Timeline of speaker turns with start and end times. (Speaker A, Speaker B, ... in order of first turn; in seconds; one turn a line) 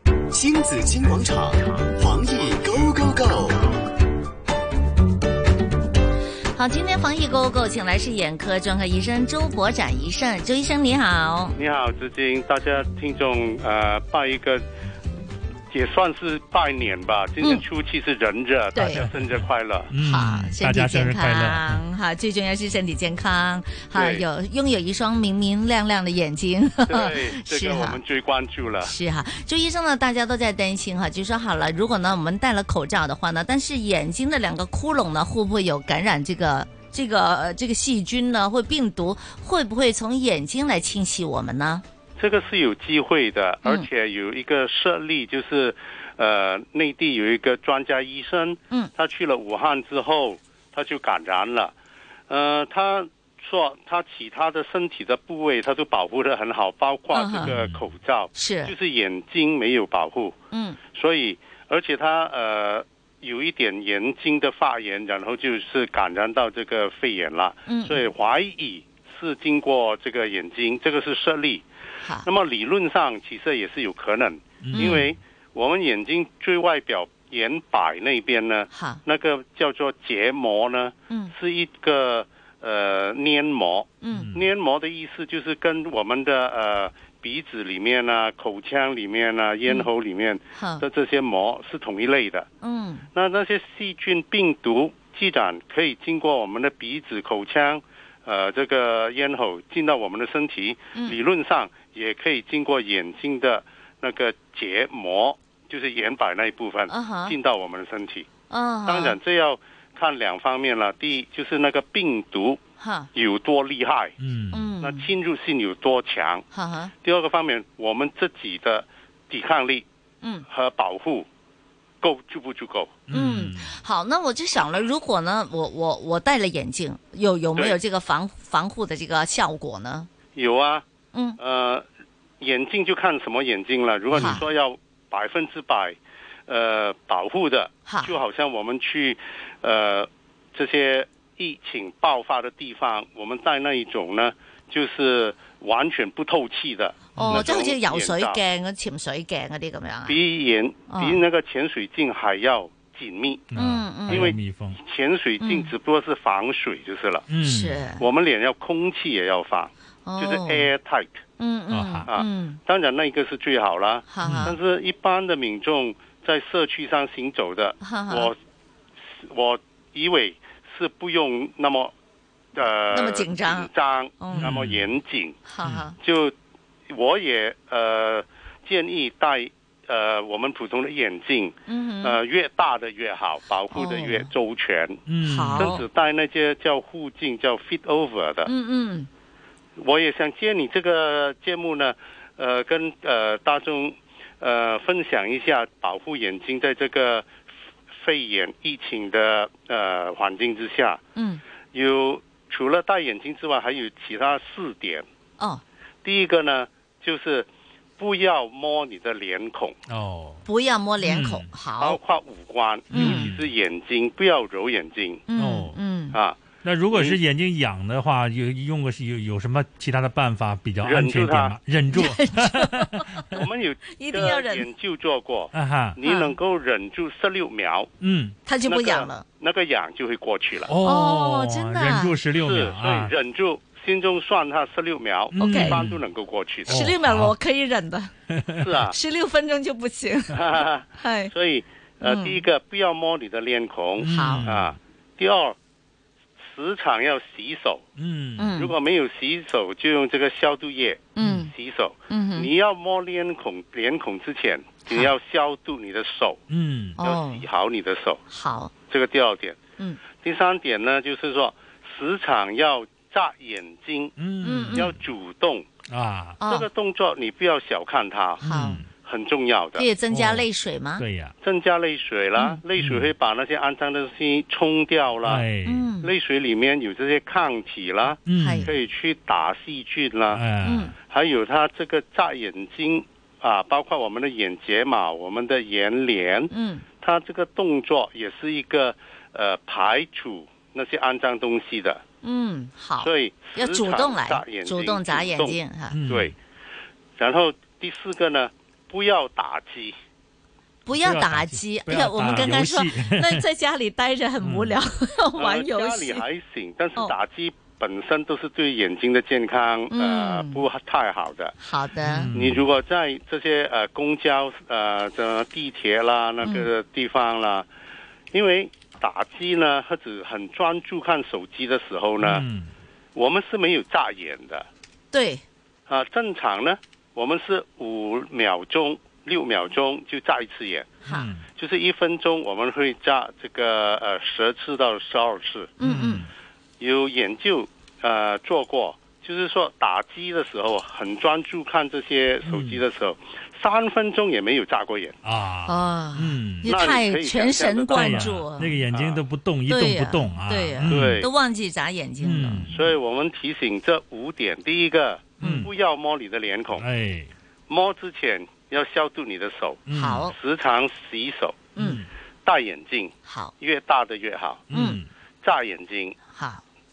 Speaker A: 0.3-3.6
Speaker B: 6.5-11.5
Speaker C: 11.6-14.6
Speaker C: 15.7-19.9
Speaker B: 18.7-19.1
Speaker D: 19.9-21.8
Speaker B: 20.0-28.0
Speaker C: 23.9-24.2
Speaker C: 26.9-28.9
Speaker B: 28.8-41.8
Speaker C: 42.2-51.7
Speaker C: 52.3-71.6
Speaker B: 57.1-57.6
Speaker D: 57.4-57.8
Speaker B: 58.3-58.7
Speaker B: 60.5-60.8
Speaker B: 67.7-68.0
Speaker C: 72.2-92.5
Speaker D: 74.6-75.1
Speaker B: 74.7-75.0
Speaker B: 78.7-79.0
Speaker B: 84.0-84.3
Speaker D: 84.1-84.5
Speaker B: 90.5-90.8
Speaker B: 92.6-93.1
Speaker C: 93.1-114.1
Speaker B: 106.9-107.3
Speaker B: 108.5-109.2
Speaker B: 112.8-113.1
Speaker D: 114.2-114.7
Speaker B: 114.5-115.0
Speaker C: 114.8-116.4
Speaker B: 116.5-116.9
Speaker C: 117.0-119.8
Speaker C: 120.5-121.3
Speaker C: 122.0-123.0
Speaker D: 123.1-123.8
Speaker B: 123.1-130.1
Speaker C: 130.3-130.8
Speaker B: 131.1-131.4
Speaker C: 131.4-131.8
Speaker C: 132.4-148.4
Speaker B: 134.1-134.5
Speaker B: 137.8-138.2
Speaker D: 147.1-147.4
Speaker B: 147.1-150.2
Speaker C: 150.1-153.5
Speaker B: 150.9-151.2
Speaker D: 153.5-154.8
Speaker B: 153.6-154.3
Speaker C: 154.1-157.2
Speaker B: 155.4-155.7
Speaker D: 157.3-157.8
Speaker B: 157.4-158.0
Speaker C: 158.0-161.2
Speaker B: 160.1-160.7
Speaker B: 161.4-162.6
Speaker D: 161.7-162.1
Speaker C: 162.1-168.3
Speaker B: 164.1-164.6
Speaker D: 164.2-164.5
Speaker B: 167.8-168.3
Speaker C: 169.1-171.9
Speaker C: 172.5-175.4
Speaker B: 172.9-174.5
Speaker D: 174.3-174.9
Speaker B: 175.4-176.0
Speaker C: 176.0-176.3
Speaker C: 176.9-185.0
Speaker B: 181.7-182.2
Speaker B: 183.7-184.3
Speaker D: 185.1-185.7
Speaker B: 185.2-185.8
Speaker C: 185.5-188.5
Speaker B: 188.4-189.1
Speaker C: 189.8-197.3
Speaker C: 197.9-201.0
Speaker B: 201.2-201.4
Speaker C: 201.7-205.1
Speaker C: 206.0-207.5
Speaker C: 208.0-209.8
Speaker D: 209.9-210.4
Speaker B: 210.4-212.0
Speaker D: 211.0-211.5
Speaker C: 211.8-215.2
Speaker B: 212.9-213.3
Speaker D: 212.9-213.5
Speaker B: 215.3-216.2
Speaker D: 215.4-215.8
Speaker C: 216.1-216.4
Speaker D: 216.6-223.4
Speaker C: 216.9-217.2
Speaker C: 220.8-221.6
Speaker B: 221.9-223.3
Speaker C: 223.3-227.9
Speaker B: 223.9-224.7
Speaker D: 225.5-226.0
Speaker B: 226.0-226.3
Speaker D: 228.0-228.3
Speaker B: 228.4-229.2
Speaker C: 228.7-230.7
Speaker D: 230.6-233.1
Speaker B: 230.8-232.2
Speaker C: 232.3-236.8
Speaker D: 235.3-236.0
Speaker B: 235.4-235.8
Speaker D: 236.7-237.3
Speaker B: 236.7-238.1
Speaker D: 238.3-238.7
Speaker C: 238.6-238.9
Speaker B: 238.8-241.3
Speaker C: 240.3-245.6
Speaker B: 242.0-242.4
Speaker D: 244.0-244.8
Speaker B: 244.1-244.5
Speaker C: 246.4-247.8
Speaker D: 248.0-248.5
Speaker B: 248.4-248.7
Speaker C: 248.5-256.4
Speaker B: 251.2-251.5
Speaker D: 251.2-251.4
Speaker B: 252.1-252.5
Speaker D: 256.5-257.0
Speaker B: 257.0-257.4
Speaker C: 257.0-258.2
Speaker B: 258.3-258.7
Speaker C: 258.9-264.1
Speaker D: 264.2-265.0
Speaker B: 264.4-264.9
Speaker C: 264.7-265.7
Speaker D: 265.9-266.4
Speaker B: 266.4-266.7
Speaker C: 266.4-268.4
Speaker D: 268.4-268.9
Speaker B: 268.4-268.8
Speaker C: 269.0-269.9
Speaker B: 269.8-271.0
Speaker D: 270.1-271.3
Speaker C: 271.4-275.4
Speaker D: 272.8-273.1
Speaker D: 275.2-275.9
Speaker B: 275.6-276.1
Speaker C: 276.0-280.4
Speaker D: 278.2-278.7
Speaker B: 278.3-278.7
Speaker D: 280.3-280.9
Speaker B: 280.6-280.9
Speaker C: 281.0-292.0
Speaker B: 286.5-286.9
Speaker B: 292.2-296.0
Speaker C: 293.0-296.4
Speaker D: 295.9-296.3
Speaker C: 297.2-299.9
Speaker B: 300.9-306.2
Speaker D: 300.9-303.5
Speaker D: 304.4-304.8
Speaker C: 305.4-311.6
Speaker B: 309.9-310.6
Speaker B: 311.6-312.3
Speaker D: 312.0-312.6
Speaker C: 312.3-317.7
Speaker B: 316.4-316.7
Speaker C: 318.3-322.4
Speaker D: 322.2-322.7
Speaker C: 323.1-324.6
Speaker B: 325.1-325.4
Speaker C: 325.9-331.0
Speaker D: 331.1-331.4
Speaker C: 331.6-335.7
Speaker B: 335.8-336.3
Speaker D: 335.8-336.3
Speaker C: 336.8-345.1
Speaker D: 342.4-342.8
Speaker D: 345.2-346.7
Speaker B: 345.6-348.8
Speaker C: 346.6-349.2
Speaker D: 347.9-351.3
Speaker B: 349.7-352.7
Speaker C: 350.8-351.3
Speaker D: 352.2-352.8
Speaker C: 352.7-356.8
Speaker D: 355.4-355.7
Speaker B: 355.4-355.7
Speaker D: 356.8-357.3
Speaker C: 357.7-361.7
Speaker D: 359.9-360.2
Speaker B: 359.9-360.3
Speaker B: 361.8-362.0
Speaker D: 361.8-362.1
Speaker C: 362.4-364.7
Speaker B: 363.2-363.5
Speaker D: 364.7-365.1
Speaker B: 364.7-365.0
Speaker C: 365.4-366.2
Speaker B: 366.3-366.6